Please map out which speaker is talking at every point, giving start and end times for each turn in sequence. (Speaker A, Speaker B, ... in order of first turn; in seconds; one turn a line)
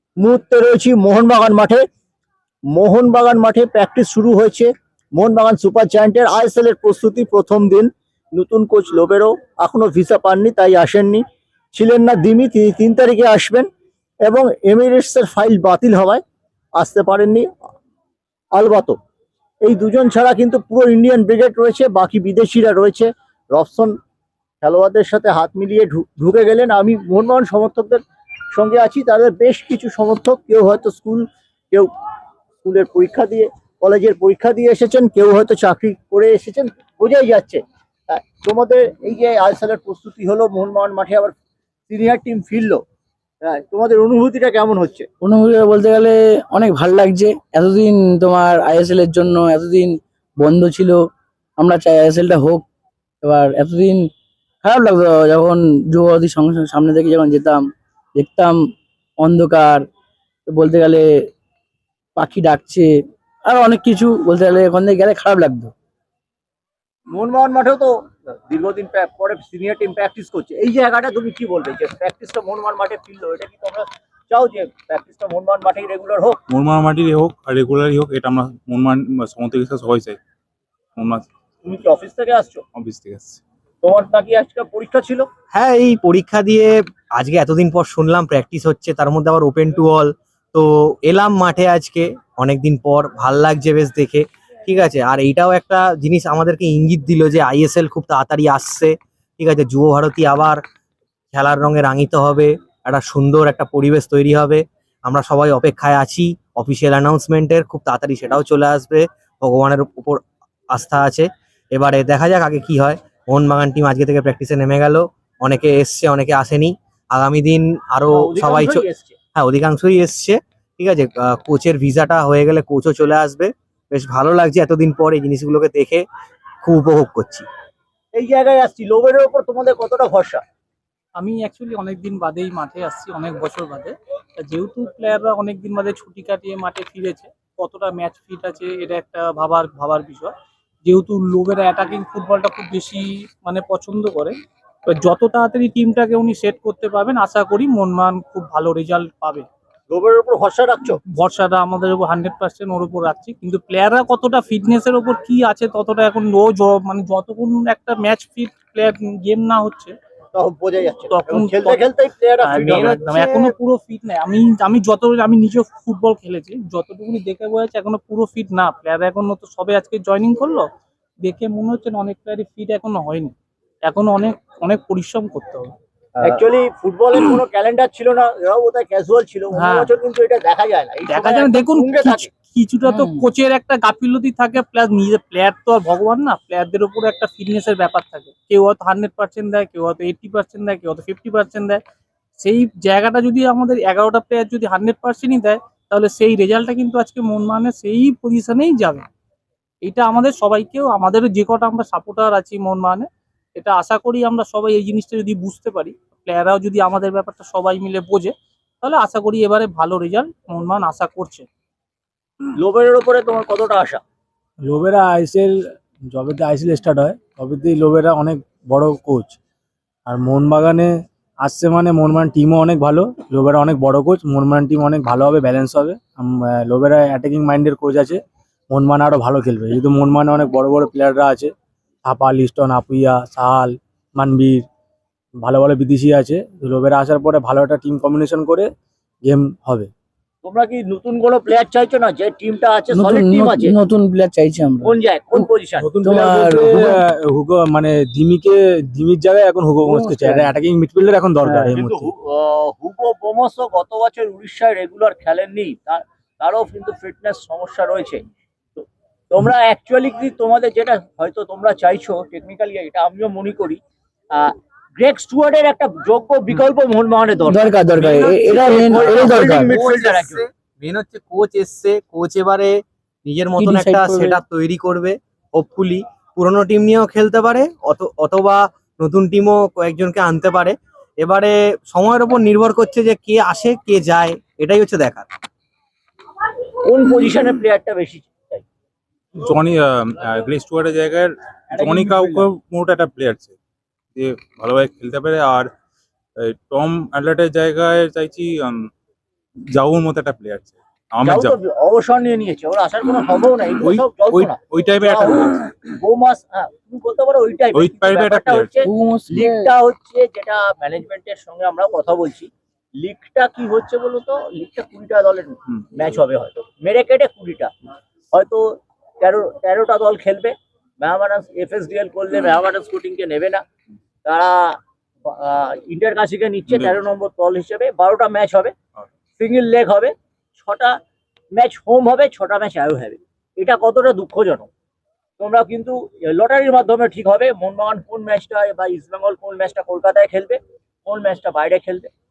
Speaker A: 0.2-1.9
Speaker A: 2.7-11.2
Speaker A: 11.7-13.7
Speaker A: 14.3-16.2
Speaker A: 16.8-17.5
Speaker A: 18.5-18.9
Speaker A: 19.6-23.9
Speaker A: 24.6-28.0
Speaker A: 28.5-31.9
Speaker A: 32.6-41.3
Speaker A: 41.9-42.8
Speaker A: 43.4-45.1
Speaker B: 45.2-51.0
Speaker B: 51.6-52.6
Speaker B: 53.2-54.1
Speaker B: 54.6-58.6
Speaker B: 59.2-59.9
Speaker B: 60.5-61.1
Speaker B: 62.1-62.9
Speaker B: 63.5-65.7
Speaker A: 67.1-67.9
Speaker A: 68.5-76.4
Speaker C: 76.5-80.2
Speaker C: 81.0-81.3
Speaker A: 81.6-82.6
Speaker C: 82.8-83.4
Speaker A: 83.8-85.3
Speaker D: 85.5-100.6
Speaker D: 101.3-110.2
Speaker D: 110.7-118.8
Speaker A: 118.1-119.2
Speaker D: 119.3-126.0
Speaker D: 126.6-127.5
Speaker A: 128.1-130.4
Speaker E: 131.2-140.3
Speaker E: 140.8-144.3
Speaker E: 144.8-149.4
Speaker A: 149.9-151.0
Speaker E: 151.1-159.9
Speaker A: 160.3-162.9
Speaker E: 161.1-161.9
Speaker E: 162.4-170.7
Speaker D: 162.5-163.5
Speaker E: 171.2-173.3
Speaker E: 173.9-175.7
Speaker A: 176.2-182.3
Speaker E: 179.5-179.9
Speaker E: 181.1-191.8
Speaker E: 192.4-199.1
Speaker E: 199.8-211.4
Speaker A: 212.6-214.0
Speaker F: 214.7-219.4
Speaker F: 220.1-220.9
Speaker F: 221.4-228.2
Speaker F: 228.7-231.5
Speaker F: 232.0-234.6
Speaker F: 235.4-238.7
Speaker F: 239.2-239.9
Speaker A: 240.4-243.7
Speaker B: 242.9-245.5
Speaker A: 244.8-246.7
Speaker F: 245.7-252.1
Speaker B: 246.0-247.0
Speaker B: 249.9-250.4
Speaker B: 251.4-251.7
Speaker A: 251.7-258.2
Speaker A: 258.8-263.8
Speaker A: 264.3-270.4
Speaker B: 267.5-269.7
Speaker D: 268.0-285.3
Speaker B: 273.6-274.4
Speaker A: 286.8-288.6
Speaker C: 289.4-293.5
Speaker A: 291.7-292.5
Speaker C: 294.1-295.7
Speaker C: 296.4-298.9
Speaker C: 299.7-301.6
Speaker A: 301.2-312.5
Speaker C: 303.8-305.7
Speaker C: 307.7-308.9
Speaker B: 308.9-309.7
Speaker A: 313.0-317.7
Speaker C: 315.7-316.2
Speaker A: 318.3-323.6
Speaker A: 324.2-328.7
Speaker C: 326.7-327.1
Speaker A: 329.4-330.9
Speaker A: 331.5-334.7
Speaker A: 335.4-342.1